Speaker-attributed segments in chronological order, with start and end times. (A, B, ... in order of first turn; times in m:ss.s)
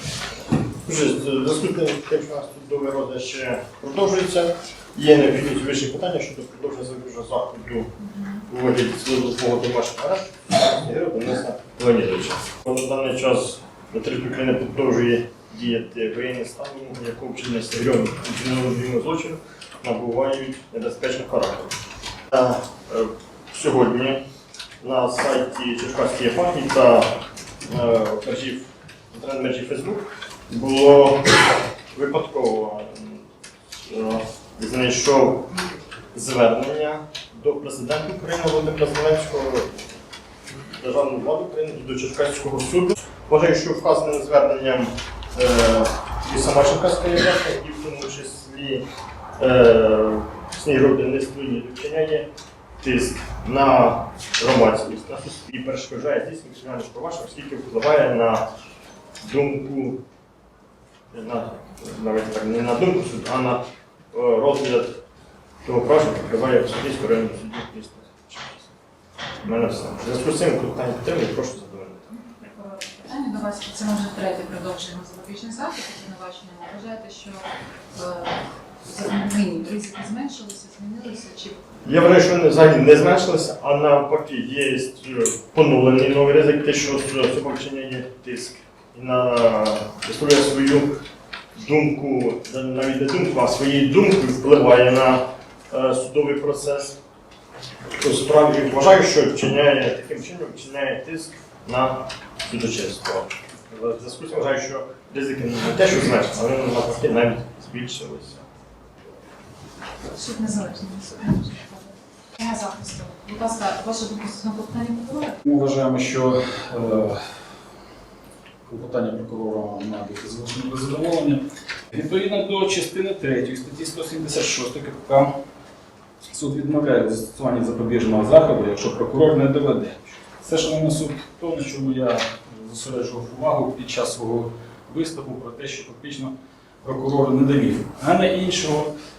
0:00.8-0:07.9 A
0:08.1-0:08.4 B
0:08.5-0:21.7 A
0:22.3-0:24.2 A
0:24.8-0:27.1 A
0:27.7-0:33.2 A
0:33.9-0:35.4 A
0:36.1-0:39.7 A
0:40.8-0:48.8 A
0:49.4-0:52.3 A
0:52.8-0:58.4 A
0:59.2-1:00.0 A
1:01.1-1:03.6 A
1:04.1-1:05.0 A
1:05.6-1:08.7 A
1:09.4-1:12.1 A
1:12.3-1:21.6 B
1:21.8-1:30.9 A
1:31.6-1:37.0 A
1:38.0-1:48.4 A
1:50.0-1:55.4 B
1:55.4-1:57.2 C
1:58.7-2:05.3 C
2:06.2-2:18.9 C